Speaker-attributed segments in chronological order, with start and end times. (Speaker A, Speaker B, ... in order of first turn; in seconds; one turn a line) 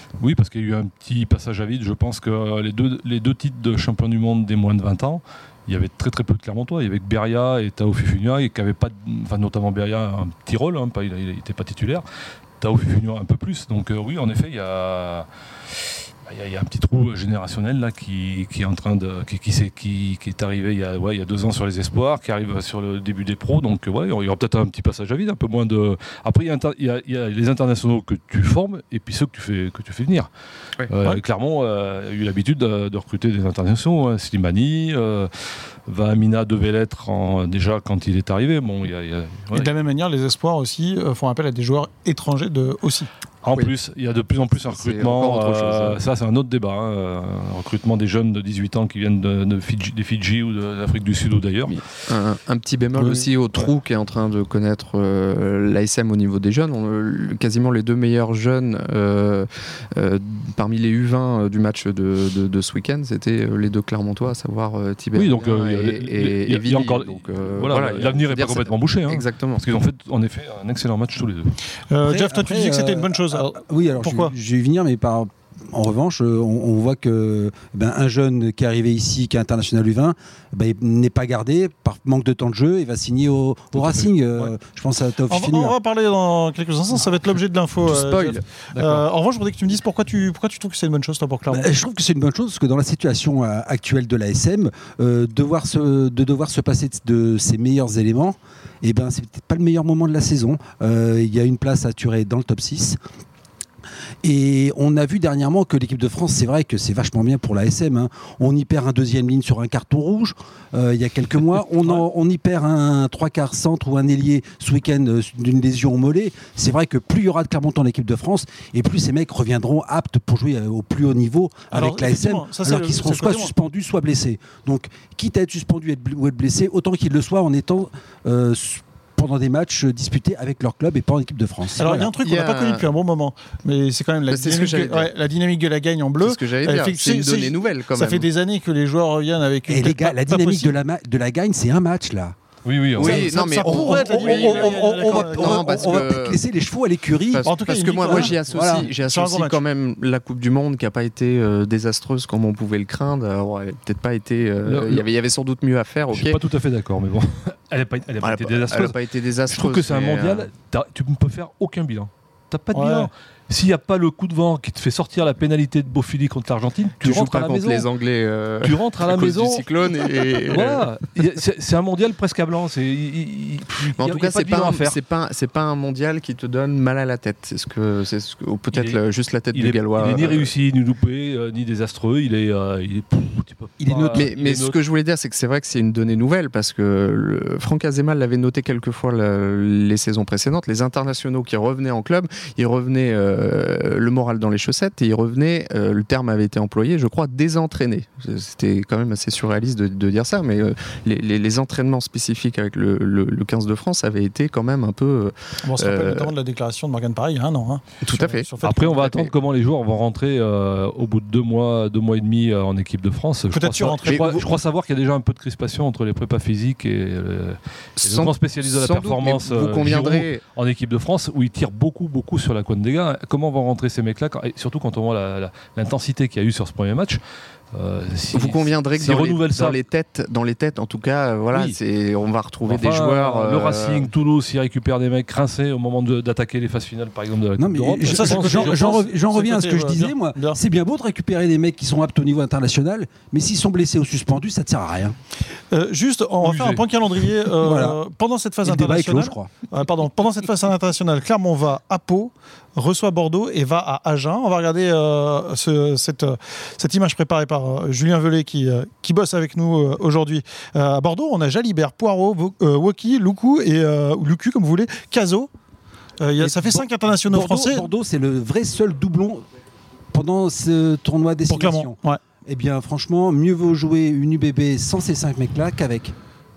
Speaker A: 0.2-12.1
Speaker A: 12.6-15.3
Speaker A: 15.8-30.3
Speaker A: 30.9-35.3
Speaker A: 35.9-39.7
Speaker B: 39.5-43.1
Speaker A: 43.4-51.8
Speaker C: 44.7-46.0
Speaker C: 51.7-69.6
Speaker A: 53.0-53.7
Speaker A: 65.2-71.6
Speaker B: 71.9-74.3
Speaker D: 72.0-85.8
Speaker A: 83.7-84.5
Speaker B: 85.3-91.7
Speaker C: 87.9-88.4
Speaker A: 88.7-89.0
Speaker D: 91.5-103.0
Speaker D: 104.2-132.1
Speaker B: 121.7-123.5
Speaker B: 131.8-140.7
Speaker C: 132.2-132.8
Speaker C: 134.3-135.1
Speaker C: 136.2-138.3
Speaker D: 139.7-142.4
Speaker A: 142.7-143.3
Speaker D: 142.9-148.9
Speaker C: 143.0-146.4
Speaker B: 143.1-146.1
Speaker C: 147.3-156.4
Speaker B: 147.4-149.6
Speaker A: 154.7-155.1
Speaker A: 156.1-159.0
Speaker C: 158.2-160.5
Speaker A: 159.5-167.9
Speaker B: 162.7-163.1
Speaker C: 167.0-170.9
Speaker A: 168.6-169.7
Speaker A: 170.4-175.0
Speaker C: 173.8-180.5
Speaker A: 178.7-179.0
Speaker A: 179.5-184.8
Speaker D: 183.8-184.3
Speaker C: 184.1-206.3
Speaker B: 205.6-209.2
Speaker C: 208.0-208.5
Speaker A: 208.6-227.2
Speaker B: 213.5-214.4
Speaker C: 218.0-220.4
Speaker A: 227.7-229.8
Speaker C: 228.3-234.1
Speaker A: 232.7-239.1
Speaker D: 237.6-245.2
Speaker B: 238.0-240.6
Speaker B: 245.7-265.5
Speaker A: 246.4-246.8
Speaker D: 247.6-248.0
Speaker D: 248.6-249.5
Speaker B: 266.2-267.9
Speaker D: 266.4-269.4
Speaker D: 270.1-276.1
Speaker B: 271.5-272.2